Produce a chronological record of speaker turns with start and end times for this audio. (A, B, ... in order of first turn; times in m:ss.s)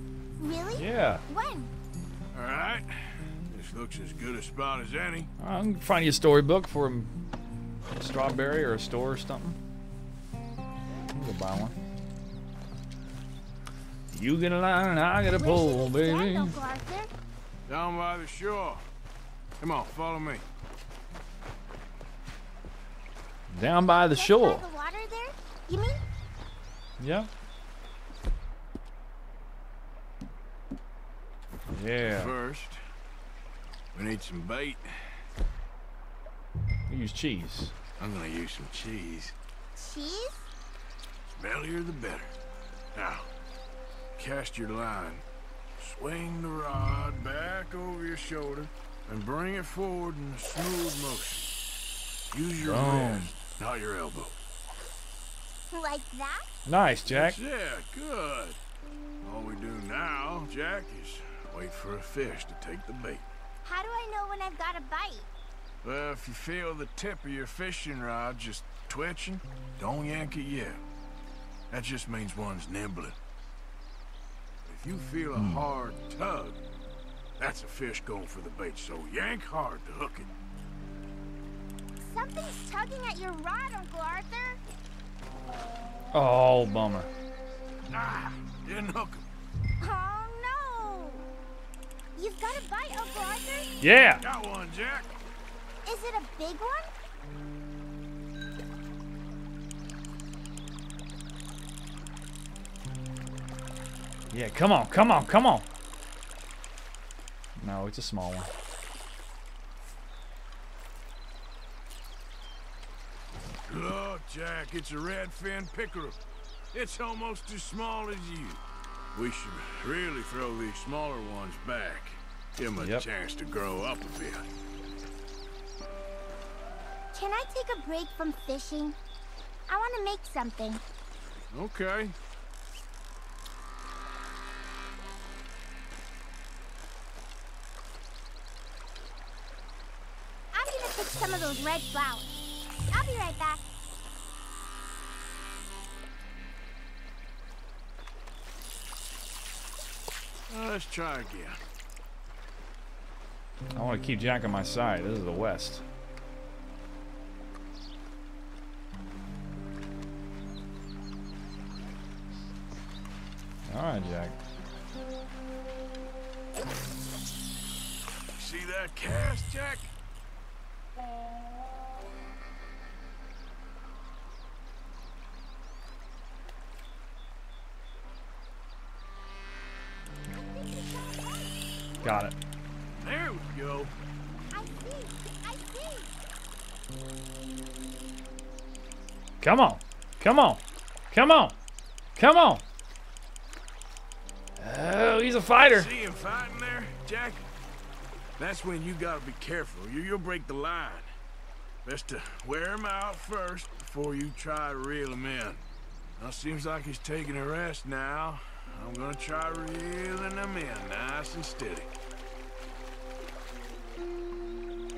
0:00.4-0:01.7 A
0:00.8-0:01.2 B
0:02.3-0:05.3 C
0:05.4-0:07.1 B
0:08.0-0:09.6 B
0:11.1-0:11.8 B
0:14.1-0:16.6 B
0:15.3-0:17.1 A
0:17.7-0:18.8 C
0:19.6-0:20.4 C
0:23.5-0:24.7 B
0:24.1-0:26.0 A
0:27.0-0:27.3 B
0:31.7-0:32.3 B
0:32.0-0:32.8 C
0:33.9-0:35.2 C
0:36.9-0:37.7 B
0:38.0-0:39.3 C
0:39.8-0:40.5 A
0:41.4-0:42.3 C
0:42.9-0:43.3 C
0:44.2-0:45.2 C
0:45.8-0:51.5 C
0:52.3-0:54.4 C
0:52.6-0:53.3 B
0:55.7-0:56.4 A
0:56.6-0:57.4 B
0:57.0-0:58.6 C
0:59.2-1:03.2 C
1:03.6-1:05.3 A
1:05.8-1:10.8 C
1:11.7-1:13.2 C
1:14.6-1:16.6 C
1:15.4-1:15.6 B
1:17.4-1:20.3 C
1:22.0-1:24.6 A
1:26.1-1:27.1 B
1:27.9-1:29.2 C
1:29.8-1:31.2 A
1:32.1-1:33.7 A
1:33.8-1:34.2 B
1:34.2-1:35.1 C
1:35.8-1:36.9 A
1:44.3-1:45.6 B
1:47.6-1:48.5 B
1:53.7-1:56.2 C
1:56.7-1:58.6 C
1:59.1-2:04.5 C
2:02.8-2:03.0 B
2:07.1-2:09.0 A
2:09.7-2:10.8 A
2:11.5-2:12.1 C
2:20.5-2:23.6 A
2:30.5-2:31.6 C
2:33.7-2:35.8 B
2:43.7-2:44.4 B
2:48.3-2:49.9 C
3:00.3-3:01.6 A
3:02.0-3:02.4 B
3:03.0-3:03.9 C
3:04.5-3:06.1 A
3:09.4-3:11.6 B
3:12.2-3:12.6 B
3:14.6-3:15.9 B
3:15.6-3:17.5 C
3:18.4-3:21.1 C
3:21.8-3:25.6 C
3:26.2-3:31.9 C